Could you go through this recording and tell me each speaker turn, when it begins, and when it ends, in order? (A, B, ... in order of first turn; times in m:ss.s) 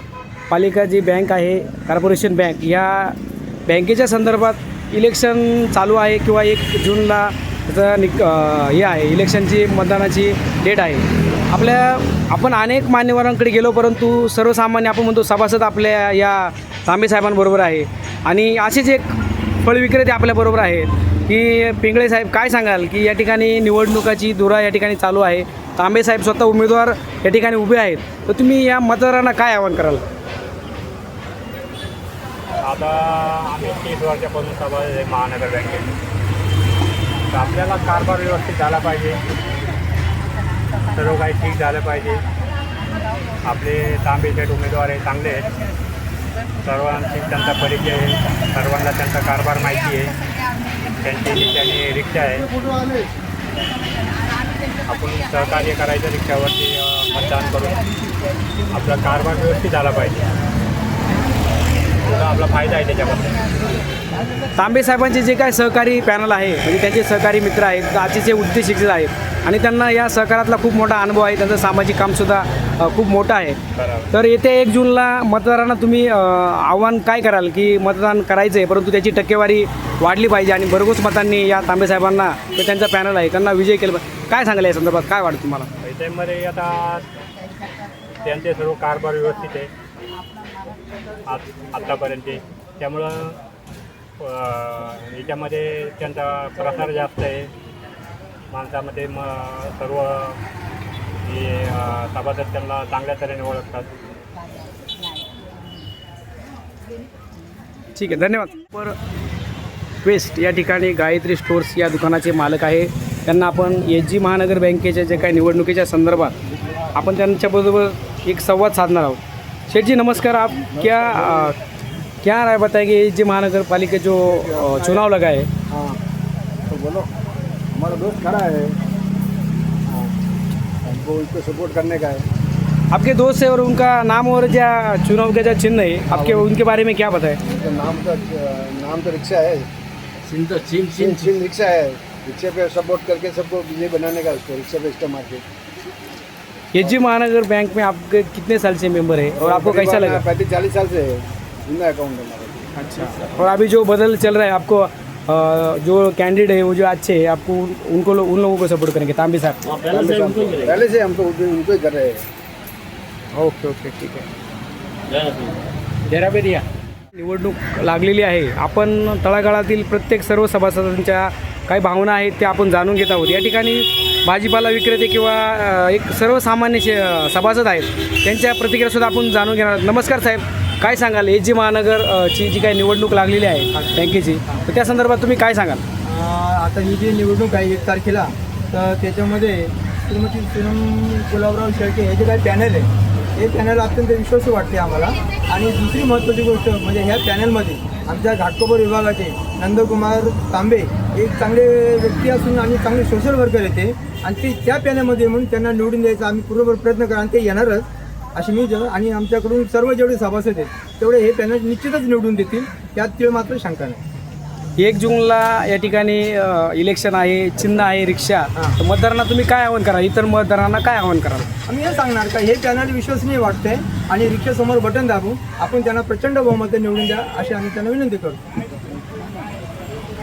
0:00.5-0:30.0 A
0:32.6-0:36.0 B
0:37.3-0:39.2 B
0:40.9-0:42.3 B
0:43.4-0:45.5 B
0:46.6-0:50.2 B
0:50.9-0:52.5 B
0:54.8-0:57.8 B
0:58.7-1:00.3 B
1:02.0-1:03.5 B
1:04.5-1:13.6 A
1:13.8-1:14.1 B
1:14.1-1:25.7 A
1:25.8-1:27.0 B
1:28.2-1:29.7 B
1:31.3-1:33.4 B
1:34.2-1:37.5 B
1:38.5-1:40.4 B
1:41.2-1:43.9 B
1:48.0-1:49.0 A
1:50.0-1:56.4 A
1:56.9-2:01.6 A
2:02.2-2:05.5 A
2:04.4-2:05.0 C
2:05.7-2:06.0 C
2:06.7-2:07.1 C
2:07.7-2:08.8 C
2:10.8-2:12.3 C
2:12.9-2:17.4 A
2:17.5-2:19.7 C
2:20.3-2:21.4 D
2:21.0-2:25.4 C
2:26.7-2:30.2 A
2:29.4-2:32.6 C
2:32.8-2:39.8 A
2:39.7-2:40.9 D
2:40.1-2:42.2 C
2:43.4-2:44.3 A
2:45.1-2:45.6 D
2:46.1-3:05.8 A
3:06.0-3:27.8 E
3:28.4-3:34.0 E
3:34.8-3:41.5 A
3:41.7-3:48.4 E